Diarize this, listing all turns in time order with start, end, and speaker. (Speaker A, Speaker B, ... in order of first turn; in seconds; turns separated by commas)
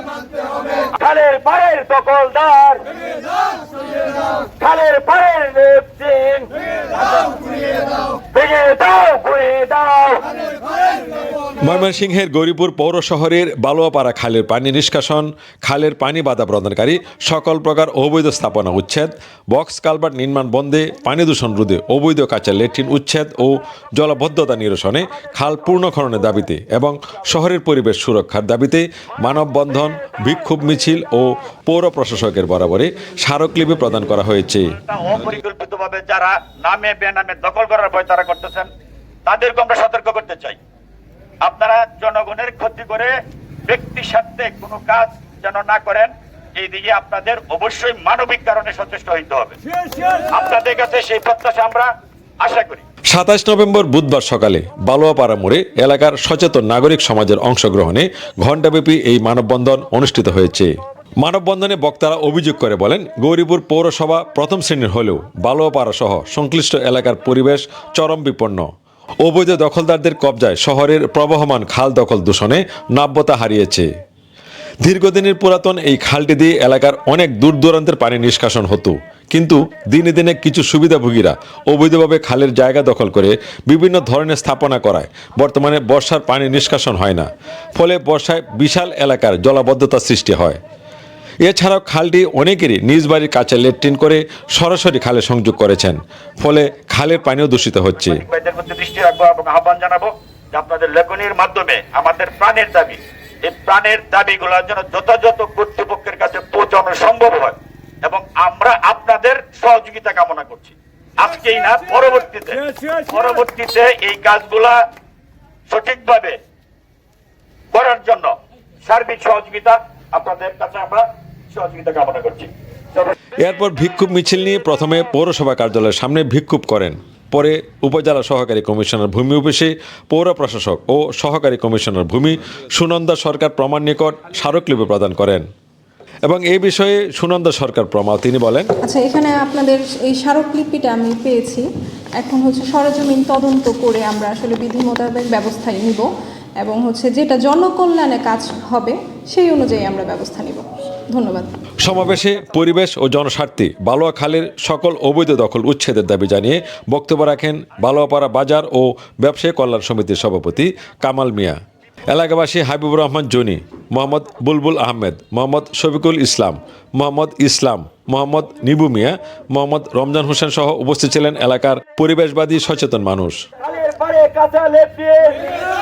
Speaker A: 0.8-2.8, Speaker A: 4.6-6.5, Speaker A: 8.3-10.2, Speaker B: 11.6-34.7, Speaker A: 34.8-38.7, Speaker A: 39.3-40.6, Speaker A: 41.4-43.1, Speaker A: 43.7-49.6, Speaker A: 50.3-51.9, Speaker A: 52.4-52.8, Speaker B: 53.1-68.7, Speaker B: 69.2-73.9, Speaker B: 74.8-90.6, Speaker B: 91.4-98.2, Speaker A: 98.0-114.8, Speaker A: 115.7-116.4, Speaker A: 117.7-118.3, Speaker A: 118.8-123.1, Speaker B: 123.4-135.4, Speaker B: 136.2-138.7, Speaker C: 138.8-141.7, Speaker C: 142.2-146.1, Speaker C: 146.6-151.5, Speaker B: 151.8-161.6, Speaker B: 162.1-173.4, Speaker A: 173.6-175.6